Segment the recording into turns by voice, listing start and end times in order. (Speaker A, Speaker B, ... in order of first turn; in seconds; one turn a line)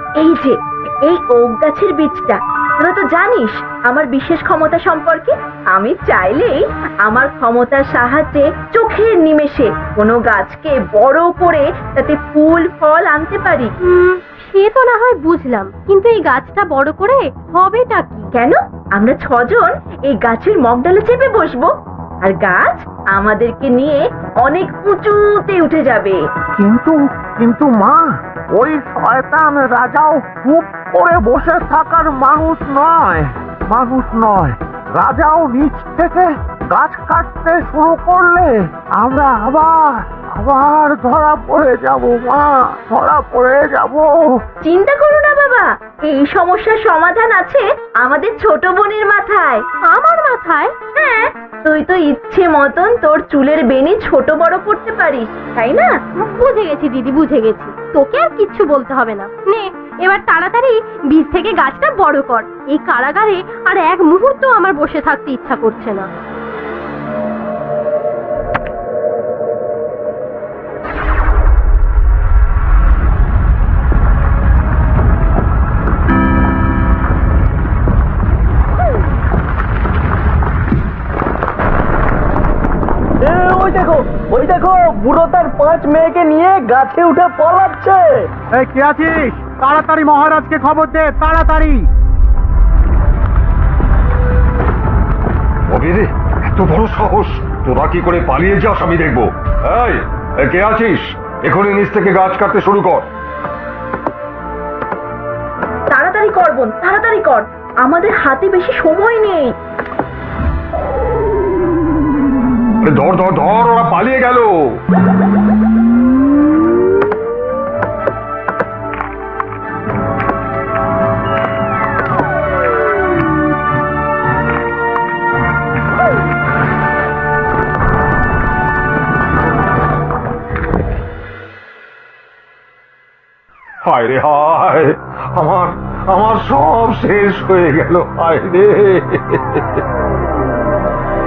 Speaker A: 0.2-13.7
Speaker B: 13.8-18.2
Speaker A: 18.4-21.7
Speaker A: 22.2-26.2
Speaker C: 26.6-28.0
Speaker C: 28.6-44.2
Speaker A: 44.6-49.6
Speaker B: 49.9-50.7
Speaker A: 51.0-55.9
Speaker B: 56.2-66.1
Speaker D: 83.2-88.2
Speaker E: 88.5-91.9
Speaker F: 95.7-103.1
Speaker A: 105.9-109.5
Speaker F: 112.8-114.5
Speaker F: 133.8-139.8